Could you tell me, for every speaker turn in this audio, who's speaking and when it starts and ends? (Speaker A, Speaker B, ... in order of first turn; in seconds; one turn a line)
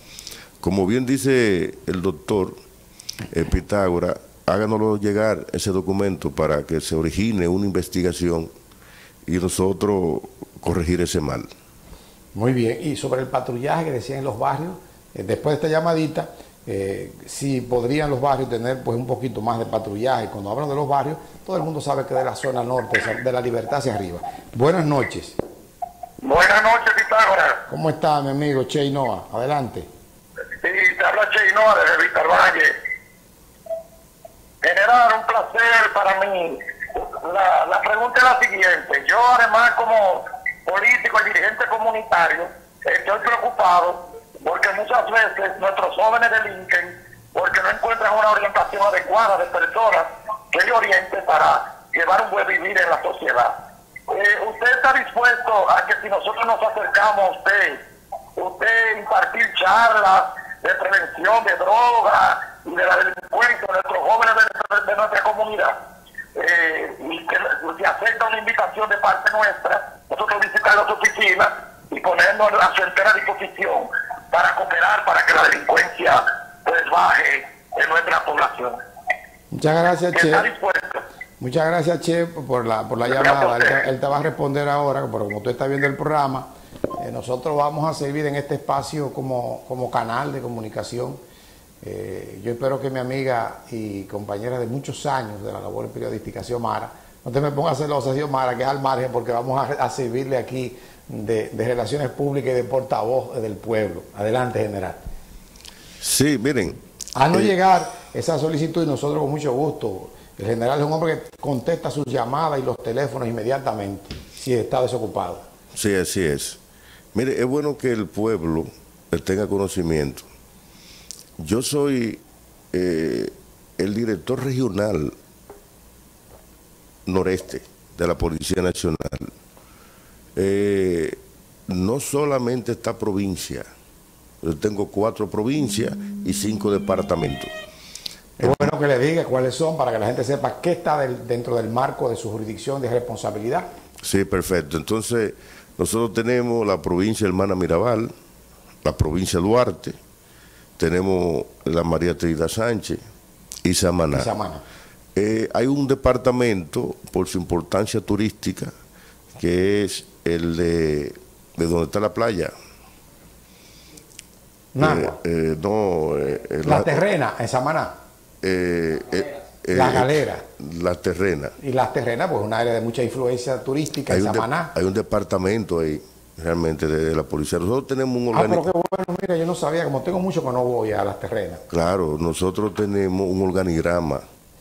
Speaker A: 0.6-2.6
Speaker A: 3.3-8.5
Speaker A: 9.3-11.5
Speaker B: 12.3-25.4
Speaker C: 26.2-27.6
Speaker B: 27.7-29.9
Speaker C: 30.6-32.7
Speaker C: 34.6-53.5
Speaker C: 54.1-57.8
Speaker C: 58.4-65.8
Speaker C: 66.4-78.8
Speaker B: 79.5-80.5
Speaker C: 80.1-81.0
Speaker B: 81.4-91.2
Speaker C: 83.1-83.8
Speaker B: 91.8-105.0
Speaker A: 106.0-106.8
Speaker B: 107.2-115.5
Speaker A: 115.7-116.6
Speaker A: 117.1-120.3
Speaker A: 121.4-122.2
Speaker A: 122.7-125.2
Speaker A: 127.1-129.3
Speaker A: 130.4-133.7
Speaker A: 134.4-137.5
Speaker B: 138.4-143.7
Speaker A: 138.4-138.7
Speaker A: 144.0-148.1
Speaker A: 148.8-150.0
Speaker A: 150.8-153.0
Speaker A: 153.7-154.3
Speaker B: 154.1-154.6
Speaker A: 155.2-158.7
Speaker A: 159.4-162.5
Speaker B: 164.8-165.2
Speaker A: 164.8-167.0
Speaker B: 166.6-168.0
Speaker A: 168.4-171.6
Speaker B: 169.7-170.5
Speaker B: 171.6-174.7
Speaker A: 174.1-178.7
Speaker B: 178.3-181.6
Speaker A: 181.7-184.2